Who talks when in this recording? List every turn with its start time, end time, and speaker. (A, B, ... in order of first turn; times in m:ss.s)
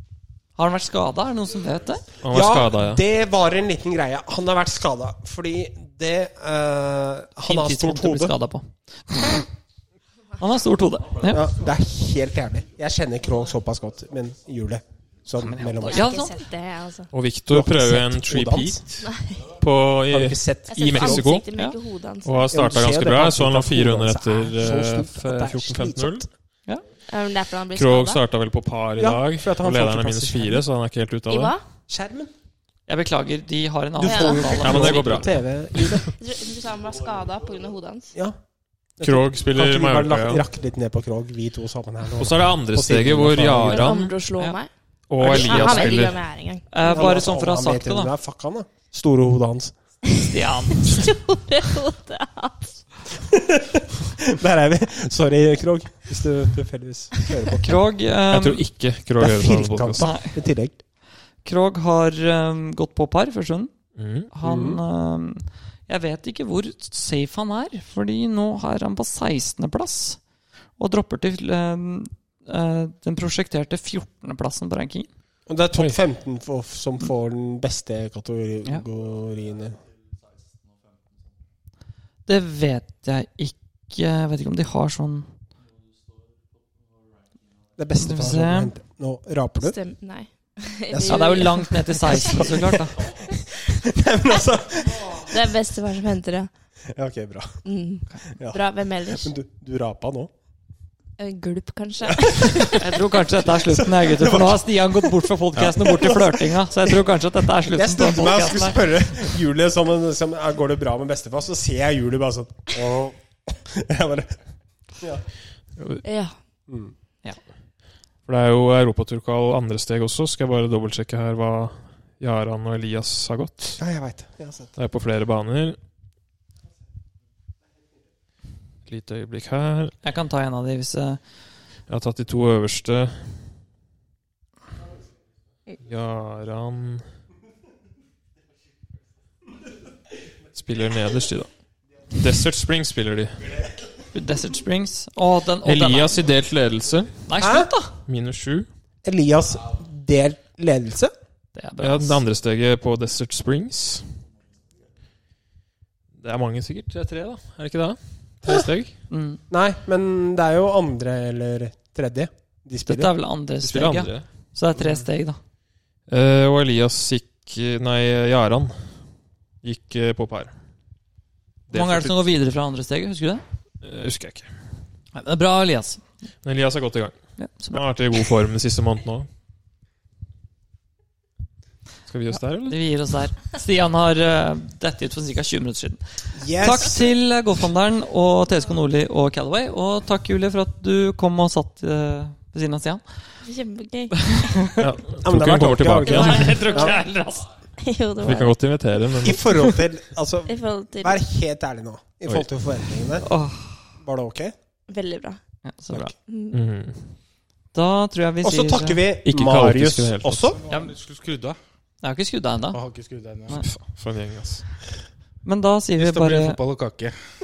0:00.6-0:02.1 A
0:02.2-0:03.0 B
0:02.3-0:08.3 C
0:07.4-0:09.4 A
0:10.4-0:11.5 A
0:11.2-0:16.2 C
0:15.4-0:16.4 A
0:15.9-0:17.1 D
0:17.1-0:21.4 B
0:17.5-0:18.8 C
0:19.0-0:19.4 D
0:20.1-0:21.2 C
0:20.7-0:22.4 D
0:22.2-0:26.2 B
0:22.5-0:26.3 C
0:27.1-0:28.2 D
0:27.7-0:31.6 B
0:29.0-0:30.6 C
0:31.3-0:31.6 D
0:31.9-0:32.3 C
0:32.9-0:36.0 A
0:34.0-0:36.1 C
0:34.0-0:34.8 D
0:34.6-0:35.3 B
0:36.2-0:38.1 D
0:39.0-0:43.9 C
0:39.0-0:40.5 B
0:42.2-0:44.1 B
0:43.7-0:47.2 D
0:45.1-0:46.2 B
0:45.2-0:46.0 A
0:46.7-0:48.1 A
0:46.8-0:49.7 C
0:50.2-0:51.1 A
0:50.7-0:52.8 D
0:53.2-0:57.8 C
0:57.6-0:58.6 A
0:58.3-1:00.1 B
0:59.2-1:00.8 C
1:00.0-1:00.4 A
1:01.4-1:03.7 A
1:04.0-1:04.3 B
1:04.3-1:10.2 A
1:04.4-1:04.8 C
1:10.8-1:15.1 A
1:15.5-1:19.8 C
1:22.2-1:25.3 A
1:27.8-1:29.8 C
1:28.0-1:28.7 A
1:29.6-1:32.4 D
1:30.9-1:35.4 C
1:31.0-1:33.0 A
1:35.0-1:36.5 D
1:36.9-1:37.6 C
1:37.6-1:39.3 D
1:38.3-1:40.3 C
1:41.2-1:42.7 D
1:42.1-1:42.9 C
1:42.8-1:48.8 A
1:43.4-1:47.0 C
1:47.7-1:54.4 C
1:55.0-1:55.2 C
1:55.8-1:56.0 B
1:56.0-1:56.4 D
1:56.7-1:56.9 C
1:58.2-2:03.8 B
2:03.8-2:04.7 C
2:04.8-2:05.8 B
2:08.8-2:09.9 B
2:10.0-2:11.2 A
2:11.9-2:13.4 B
2:15.8-2:17.1 B
2:20.5-2:21.5 B
2:22.1-2:23.7 B
2:24.1-2:26.3 A
2:25.6-2:27.3 B
2:27.3-2:27.9 A
2:27.4-2:27.7 C
2:28.1-2:28.7 B
2:29.0-2:31.1 C
2:31.6-2:32.2 A
2:31.8-2:34.1 B
2:36.2-2:38.9 B
2:39.1-2:39.4 A
2:39.5-2:43.1 C
2:42.8-2:45.4 A
2:43.6-2:44.3 B
2:46.1-2:49.0 B
2:49.6-2:50.5 B
2:51.7-2:52.2 B
2:51.7-2:53.4 A
2:53.8-2:54.6 B
2:55.1-2:56.0 A
2:56.4-2:57.2 B
2:57.4-2:57.8 A
2:57.7-2:59.3 B
3:02.1-3:02.8 B
3:02.6-3:13.0 A
3:06.4-3:07.1 C
3:13.4-3:14.2 D
3:14.2-3:14.7 A
3:14.8-3:16.8 B
3:15.2-3:17.0 C
3:16.0-3:17.5 A
3:17.8-3:18.5 D
3:18.2-3:19.7 B
3:19.2-3:23.3 C
3:20.5-3:21.2 D
3:23.2-3:23.9 A
3:24.0-3:24.5 C
3:24.9-3:25.4 D
3:25.6-3:26.1 A
3:26.3-3:26.6 D
3:26.5-3:27.1 B
3:27.7-3:29.0 A
3:28.4-3:30.6 C
3:29.2-3:30.5 B
3:30.6-3:31.6 E
3:30.7-3:30.9 A
3:32.0-3:32.8 A
3:32.7-3:33.7 E
3:33.5-3:34.7 B
3:35.4-3:36.6 A
3:36.0-3:37.2 E